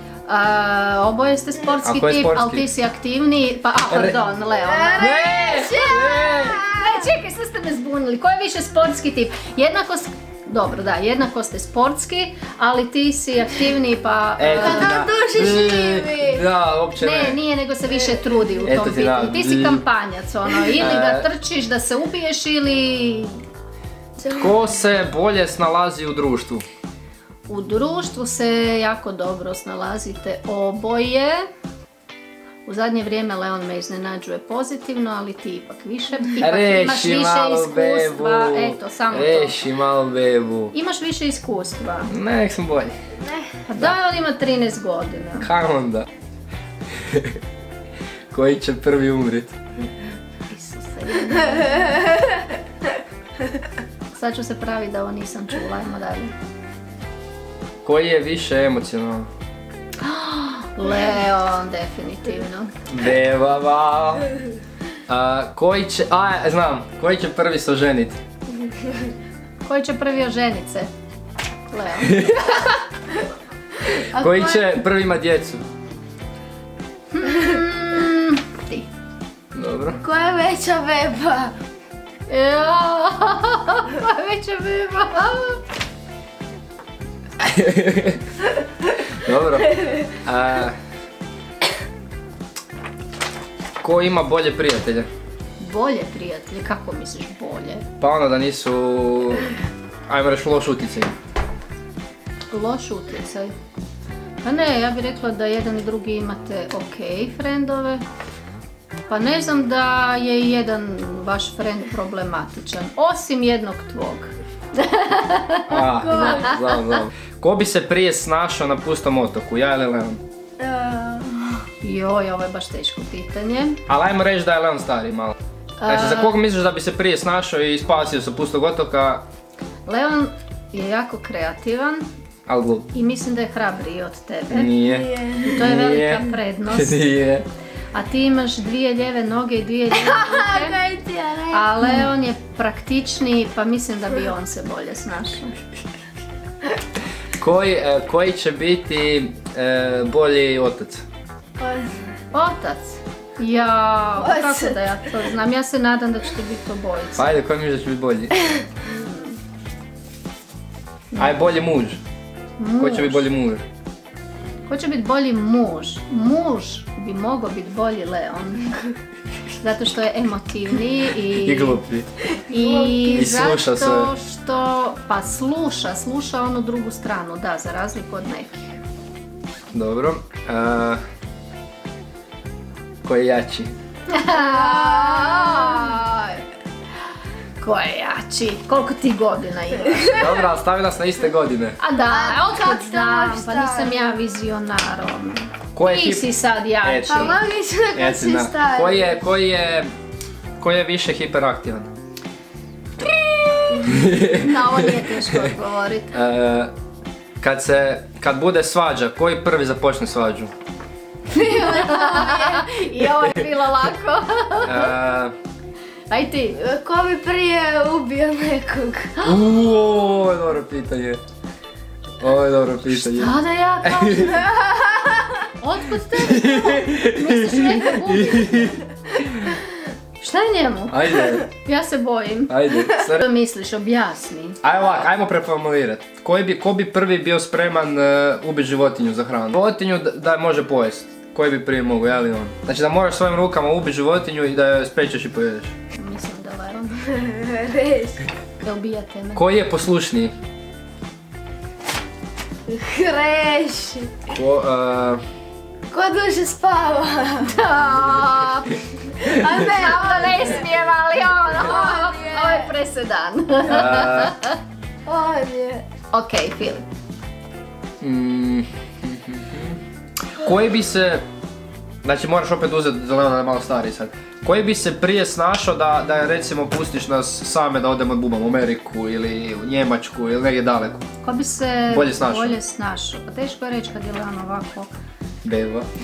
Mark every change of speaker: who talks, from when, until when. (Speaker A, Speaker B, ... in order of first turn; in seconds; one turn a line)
Speaker A: 0.3-5.4
Speaker B: 1.8-2.7
Speaker B: 3.9-4.2
Speaker C: 4.6-7.1
Speaker B: 5.0-6.6
Speaker A: 6.2-15.0
Speaker B: 14.4-17.4
Speaker C: 14.5-16.4
Speaker A: 17.0-23.4
Speaker B: 18.6-19.8
Speaker B: 20.8-21.3
Speaker C: 24.2-24.6
Speaker B: 24.4-26.6
Speaker A: 27.5-31.4
Speaker A: 32.7-39.6
Speaker B: 36.4-40.7
Speaker A: 40.7-42.1
Speaker B: 42.1-42.9
Speaker A: 43.7-45.5
Speaker B: 45.4-46.1
Speaker B: 46.9-47.4
Speaker B: 48.3-49.6
Speaker A: 50.5-52.0
Speaker C: 51.6-52.4
Speaker A: 54.1-56.3
Speaker B: 57.8-59.3
Speaker A: 60.0-62.7
Speaker B: 62.9-64.3
Speaker B: 65.1-68.2
Speaker A: 69.6-70.9
Speaker A: 71.7-72.8
Speaker B: 72.1-72.6
Speaker C: 74.1-74.7
Speaker B: 74.2-75.6
Speaker A: 77.1-78.9
Speaker B: 79.5-80.0
Speaker C: 80.0-81.5
Speaker A: 82.3-85.6
Speaker B: 87.4-88.2
Speaker B: 89.2-90.8
Speaker B: 93.8-95.1
Speaker A: 95.6-97.8
Speaker B: 98.0-99.5
Speaker B: 100.1-101.1
Speaker A: 102.5-103.5
Speaker A: 104.4-108.0
Speaker A: 109.1-116.5
Speaker B: 115.7-120.2
Speaker C: 115.9-116.6
Speaker C: 120.6-121.6
Speaker A: 121.8-123.8
Speaker B: 123.9-125.3
Speaker A: 125.8-126.4
Speaker B: 125.9-129.2
Speaker A: 129.9-132.1
Speaker B: 132.5-132.9
Speaker A: 132.9-134.7
Speaker B: 134.5-137.4
Speaker C: 134.8-135.6
Speaker A: 135.4-137.0
Speaker A: 137.9-140.8
Speaker C: 139.9-141.7
Speaker A: 141.5-145.5
Speaker B: 147.4-151.0
Speaker C: 151.6-151.9
Speaker A: 152.3-157.3
Speaker C: 154.2-155.0
Speaker B: 157.2-158.3
Speaker A: 158.8-159.4
Speaker A: 161.1-161.4
Speaker B: 161.2-162.0
Speaker A: 162.6-163.3
Speaker B: 162.8-163.6
Speaker A: 164.7-168.8
Speaker A: 169.6-171.8
Speaker B: 171.4-172.1
Speaker C: 172.4-173.3
Speaker A: 172.5-178.8
Speaker B: 173.2-174.1
Speaker B: 179.7-181.0
Speaker B: 183.0-183.7
Speaker A: 184.1-186.4
Speaker C: 184.4-185.9
Speaker A: 187.6-190.2
Speaker C: 189.8-190.4
Speaker B: 190.1-191.8
Speaker A: 191.8-197.4
Speaker C: 192.1-194.1
Speaker B: 195.8-196.3
Speaker B: 196.8-197.4
Speaker C: 197.1-199.1
Speaker B: 197.9-199.9
Speaker B: 200.6-201.9
Speaker A: 203.0-206.2
Speaker B: 203.9-205.5
Speaker B: 206.1-206.7
Speaker B: 207.4-210.5
Speaker C: 211.3-212.7
Speaker A: 211.3-214.9
Speaker B: 214.6-215.4
Speaker A: 216.1-216.6
Speaker C: 216.6-219.2
Speaker B: 219.2-221.2
Speaker B: 222.2-224.5
Speaker A: 222.9-224.5
Speaker C: 224.4-225.3
Speaker A: 225.6-228.8
Speaker B: 226.1-229.6
Speaker A: 230.2-234.6
Speaker B: 230.9-231.5
Speaker B: 232.5-233.3
Speaker B: 234.6-245.7
Speaker A: 245.9-247.0
Speaker C: 247.0-248.2
Speaker A: 248.6-249.4
Speaker B: 249.3-250.3
Speaker C: 252.7-254.2
Speaker B: 254.3-255.2
Speaker C: 255.9-257.6
Speaker A: 257.5-264.6
Speaker C: 259.2-260.7
Speaker C: 261.5-262.7
Speaker B: 263.7-264.4
Speaker C: 265.1-265.9
Speaker A: 266.1-266.9
Speaker B: 268.0-269.8
Speaker B: 270.3-271.2
Speaker B: 272.0-281.0
Speaker A: 281.2-284.9
Speaker B: 281.9-282.6
Speaker B: 285.4-285.9